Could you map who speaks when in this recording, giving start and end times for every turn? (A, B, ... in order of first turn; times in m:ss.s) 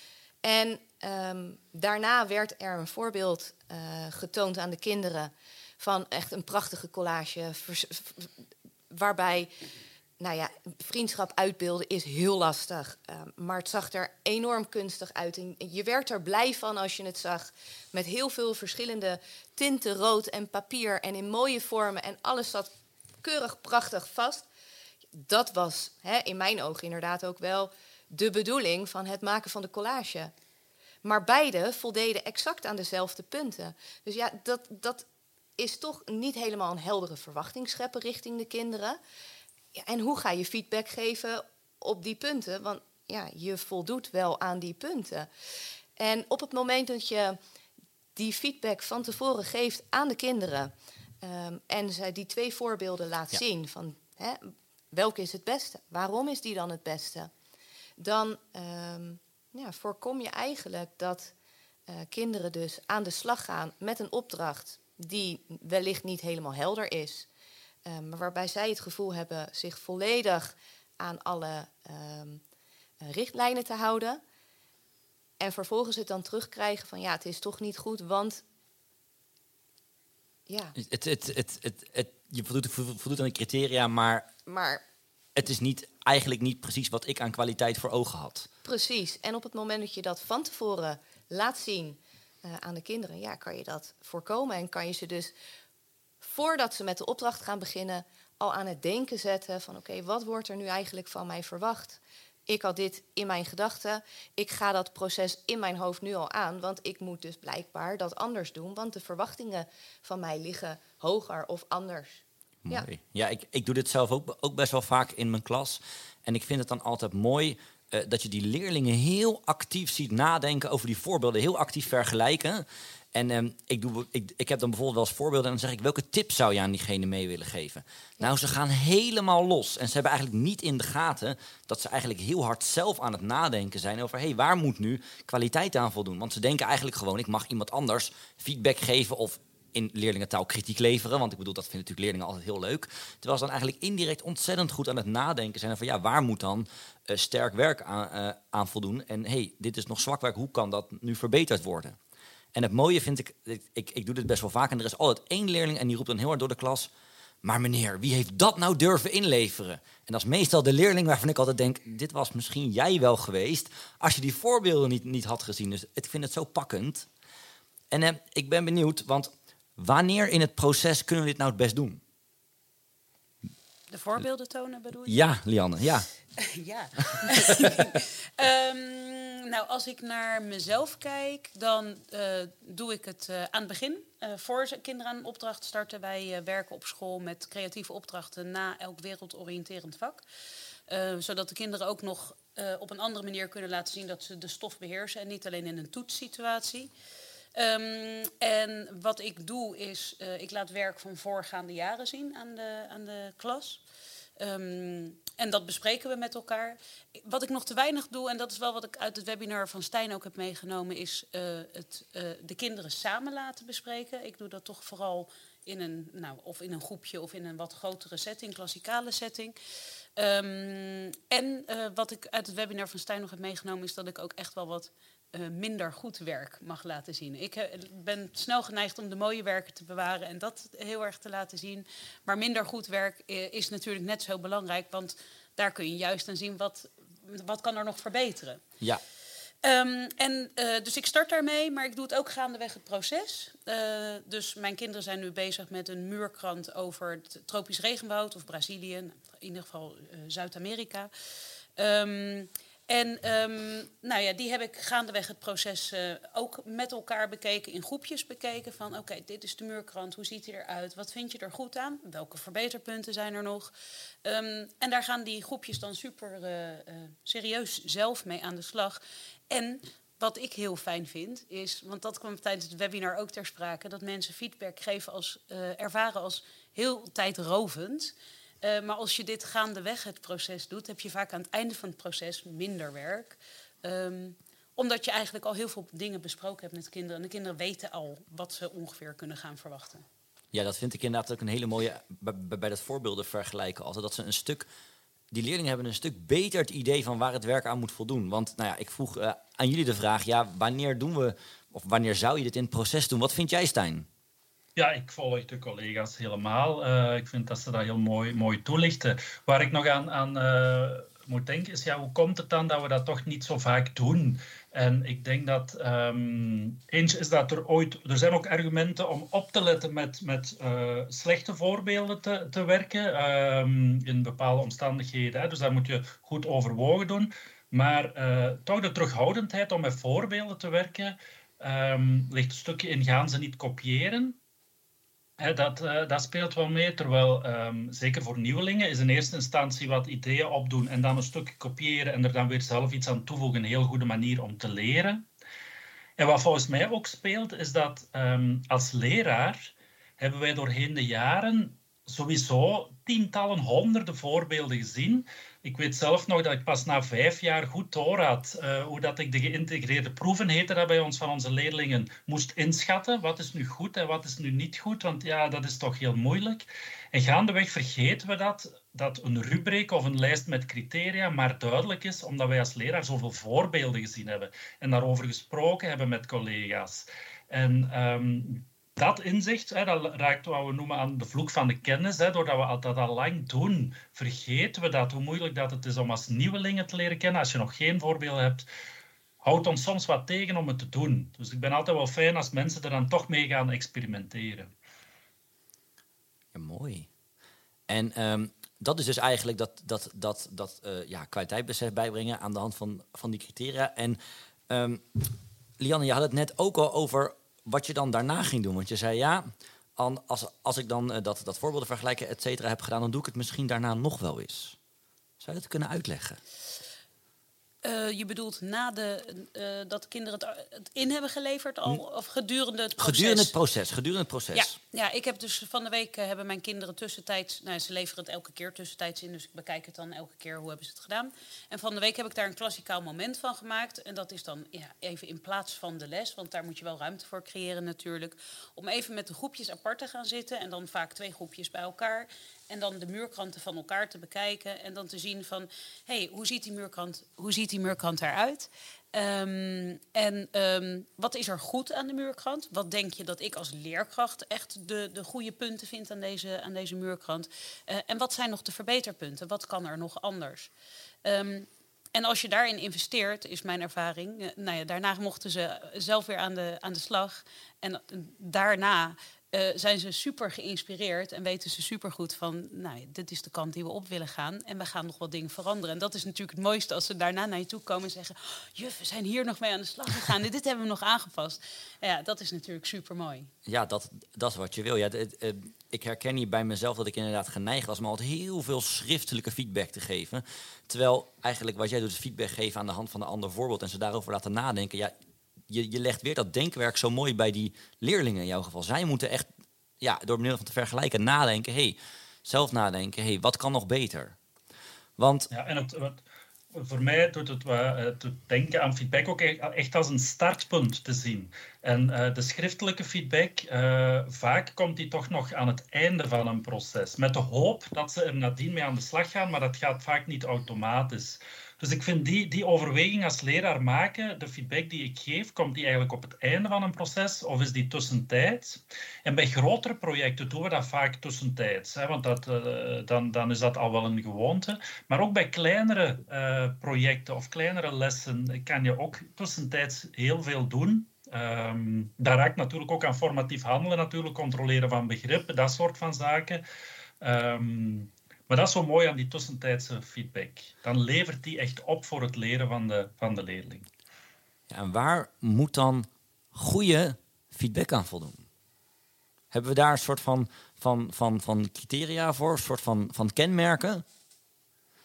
0:00.4-0:08.3 A
0:08.9-0:09.5 A
0:10.2-0:22.7 A
0:23.2-0:24.4 A
0:25.1-0:30.3 A
0:31.0-0:35.0 A
0:35.6-0:39.0 A
0:39.7-0:45.3 A
0:46.0-0:47.4 A
0:48.1-0:57.3 A
0:58.0-1:01.3 A
1:01.9-1:07.3 A
1:07.8-1:12.4 A
1:13.0-1:14.2 A
1:15.4-1:18.4 A
1:20.5-1:20.7 A
1:20.8-1:24.3 B
1:24.4-1:24.8 A
1:25.4-1:28.5 B
1:28.6-1:35.3 A
1:36.2-1:52.9 A
1:52.6-2:32.0 B
2:32.5-2:36.9 B
2:37.4-2:47.1 B
2:47.9-2:52.0 B
2:53.9-2:55.2 C
2:55.0-2:56.1 B
2:56.4-3:10.2 C
2:57.1-2:57.8 B
3:10.9-3:16.9 C
3:17.5-3:23.8 C
3:24.4-3:39.5 C
3:40.2-3:58.6 C
3:59.6-4:11.1 C
4:11.8-4:23.7 C
4:24.2-4:50.0 C
4:50.5-4:54.7 B
4:55.3-5:04.1 B
5:04.8-5:34.4 D
5:35.4-5:45.2 D
5:46.2-6:28.7 D
6:29.4-6:34.7 D
6:36.5-6:37.1 B
6:37.9-6:54.8 B
6:55.4-6:56.4 B
6:57.8-7:03.5 C
7:03.0-7:04.8 B
7:04.5-7:40.7 C
7:41.2-8:03.5 C
8:03.6-8:15.1 B
8:15.7-8:19.5 B
8:20.0-8:24.4 B
8:25.2-8:25.5 B
8:25.5-8:26.2 D
8:26.7-9:06.6 D
9:07.2-9:13.9 D
9:14.7-9:18.4 B
9:19.5-9:24.0 B